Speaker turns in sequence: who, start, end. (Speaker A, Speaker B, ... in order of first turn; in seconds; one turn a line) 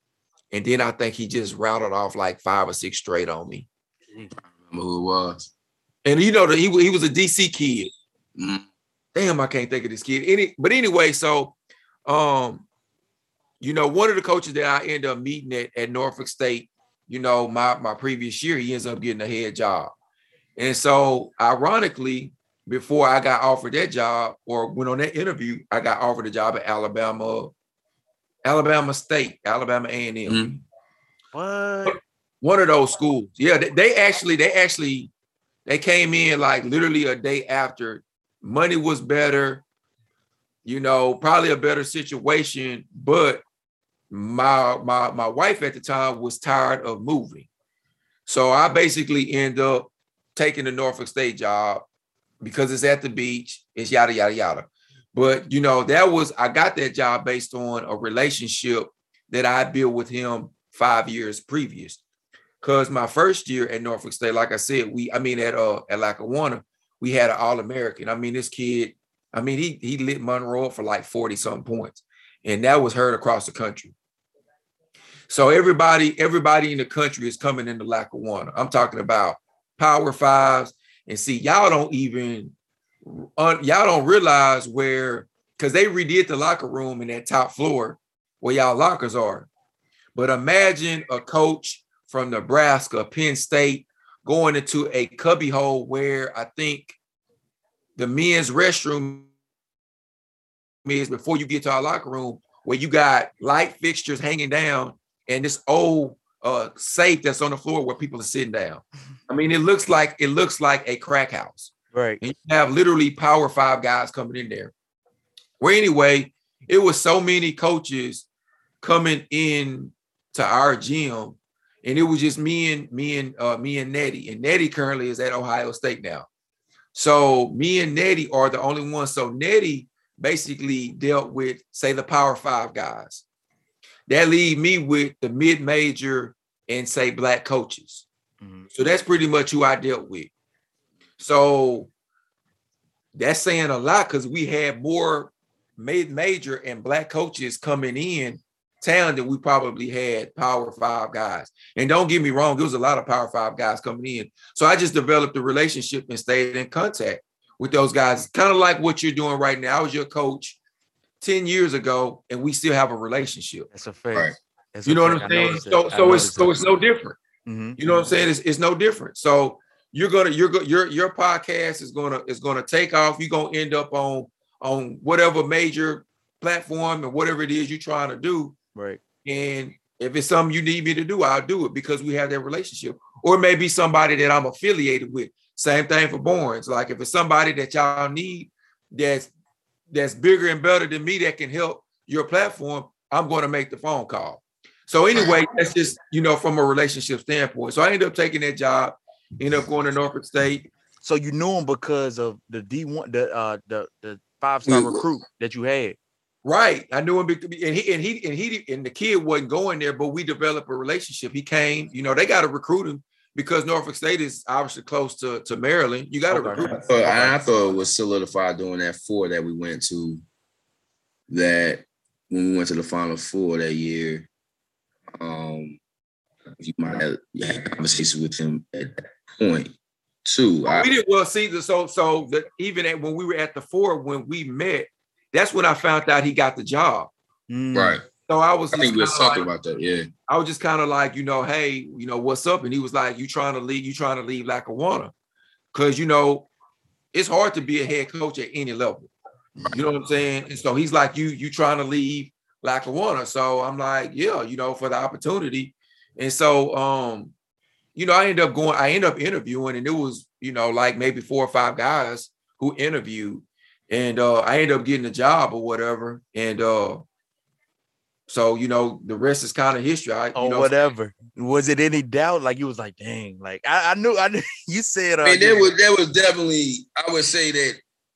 Speaker A: 0.5-3.7
Speaker B: 4.3-5.5
Speaker A: 6.0-7.9
Speaker B: 8.3-8.7
Speaker A: 9.1-12.7
Speaker A: 13.6-19.9
Speaker A: 20.6-27.5
Speaker A: 28.4-30.4
Speaker B: 30.2-30.6
Speaker C: 31.3-32.0
Speaker A: 31.8-35.1
Speaker A: 35.6-39.6
Speaker A: 40.6-43.4
Speaker A: 44.1-47.5
Speaker A: 48.3-51.8
Speaker A: 52.4-62.0
Speaker A: 62.6-73.9
Speaker A: 75.3-82.5
Speaker A: 83.0-89.5
Speaker A: 90.1-97.0
Speaker A: 98.0-99.3
Speaker A: 100.8-114.7
Speaker C: 111.9-112.2
Speaker A: 115.6-118.2
Speaker A: 118.8-126.3
Speaker A: 126.9-133.2
Speaker A: 134.1-138.0
Speaker C: 138.4-138.7
Speaker A: 138.7-140.3
Speaker A: 141.2-141.9
Speaker A: 143.1-160.6
Speaker A: 161.2-163.7
Speaker C: 163.7-166.6
Speaker A: 164.8-167.2
Speaker C: 167.4-168.1
Speaker A: 167.8-178.6
Speaker C: 178.7-179.0
Speaker A: 179.2-189.3
Speaker A: 189.9-200.7
Speaker C: 201.0-206.0
Speaker B: 204.7-205.0
Speaker A: 206.4-217.3
Speaker B: 216.4-220.2
Speaker B: 221.3-224.3
Speaker B: 225.2-225.8
Speaker B: 226.5-230.9
Speaker A: 230.7-237.1
Speaker C: 237.5-238.0
Speaker B: 237.7-238.0
Speaker A: 238.3-239.5
Speaker B: 238.7-240.1
Speaker A: 240.3-245.1
Speaker A: 245.7-246.5
Speaker A: 247.1-249.1
Speaker B: 249.6-249.8
Speaker A: 249.7-257.3
Speaker A: 257.9-267.1
Speaker A: 268.3-270.7
Speaker C: 270.3-275.7
Speaker B: 275.2-277.8